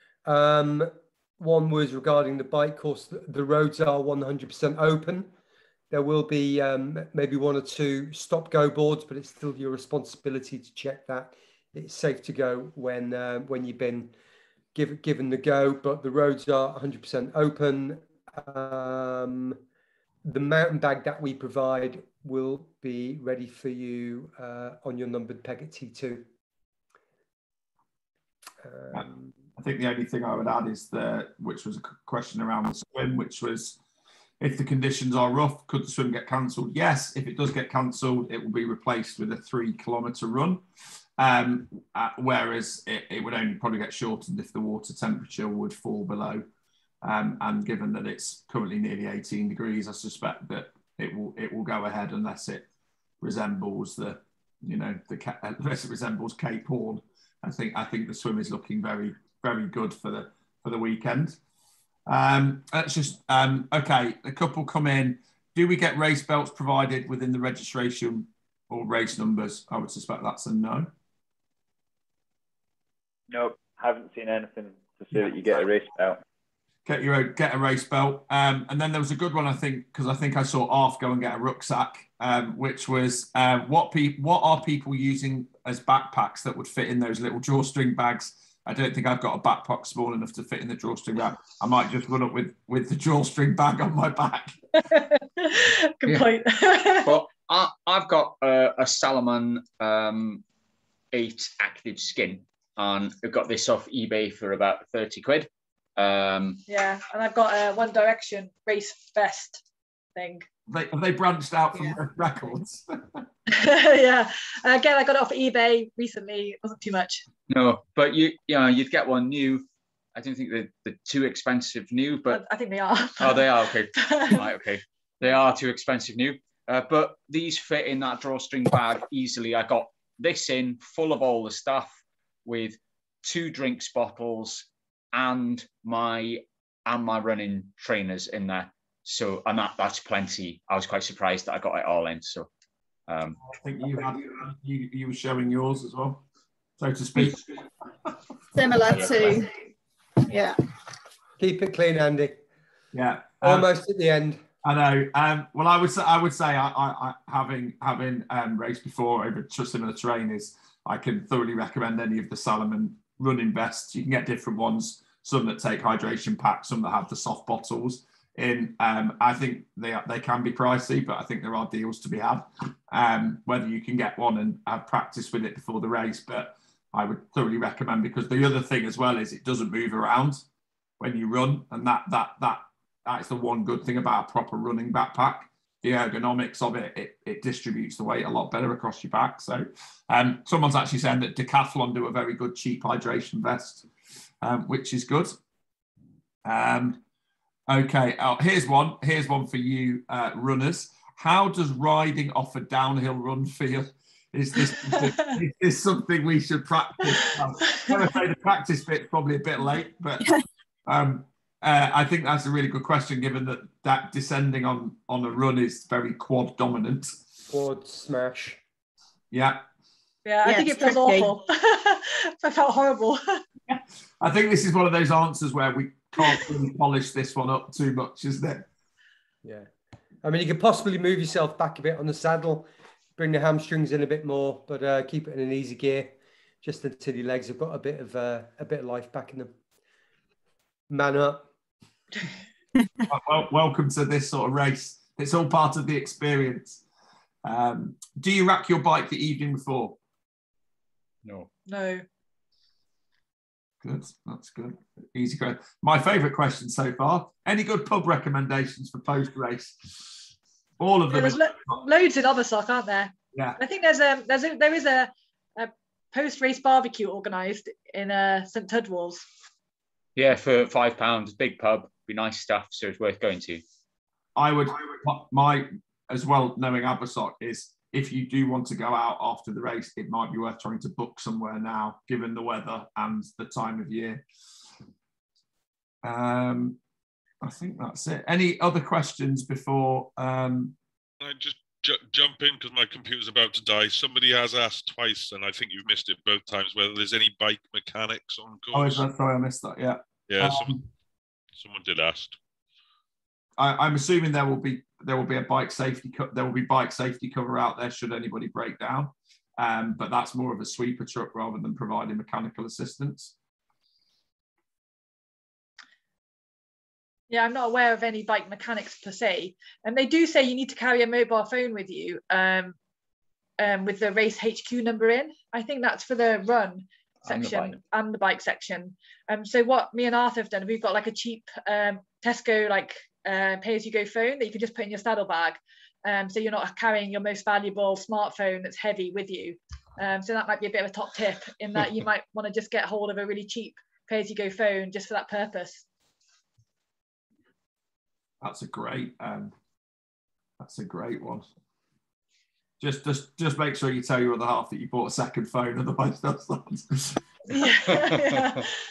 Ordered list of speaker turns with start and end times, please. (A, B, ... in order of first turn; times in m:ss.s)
0:00.2-0:05.3 A
0:05.9-0:14.2 A
0:14.7-0:19.6 A
0:20.2-0:26.2 A
0:28.6-0:29.3 A
0:28.9-0:33.8 B
0:34.4-0:40.6 B
0:41.2-0:46.4 B
0:47.0-0:52.7 B
0:53.2-1:01.4 B
1:02.1-1:10.9 B
1:13.3-1:16.2 C
1:16.8-1:34.6 B
1:34.9-1:37.2 D
1:37.0-1:40.4 E
1:41.1-1:46.6 E
1:46.7-1:49.6 D
1:50.2-1:50.4 D
1:50.7-1:53.2 B
1:53.5-1:57.2 D
1:57.5-2:02.4 E
2:02.3-2:04.5 D
2:03.2-2:22.5 E
2:23.1-2:23.4 E
2:23.4-2:26.2 B
2:26.8-2:27.4 B
2:28.5-2:29.5 F
2:28.9-2:29.2 B
2:30.3-2:30.6 F
2:31.4-2:32.4 A
2:32.9-2:33.7 B
2:33.4-2:34.4 A
2:34.6-3:00.4 B
3:01.0-3:13.9 B
3:14.4-3:15.3 B
3:16.4-3:17.0 B
3:17.7-3:30.3 B
3:30.9-3:37.2 B
3:37.5-3:38.6 A
3:39.3-3:39.6 B
3:40.2-3:43.4 D
3:40.4-3:41.3 F
3:43.7-3:48.7 B
3:49.4-3:49.7 A
3:50.2-3:59.5 A
4:00.9-4:01.5 A
4:03.1-4:06.8 B
4:07.4-4:10.0 B
4:11.7-4:12.0 D
4:13.8-4:20.1 B
4:20.8-4:21.8 B
4:21.1-4:29.2 D
4:23.3-4:23.6 B
4:30.2-4:33.6 E
4:34.4-4:44.2 B
4:46.0-4:46.8 B
4:47.4-4:50.8 B
4:51.2-4:59.0 G
4:58.7-5:00.8 B
5:00.3-5:00.8 G
5:01.6-5:02.4 G
5:03.6-5:13.3 B
5:17.3-5:22.8 D
5:23.6-5:45.8 D
5:27.2-5:27.8 E
5:48.4-5:49.5 B
5:50.6-5:51.4 B
5:52.8-5:57.2 B
5:57.5-5:58.6 D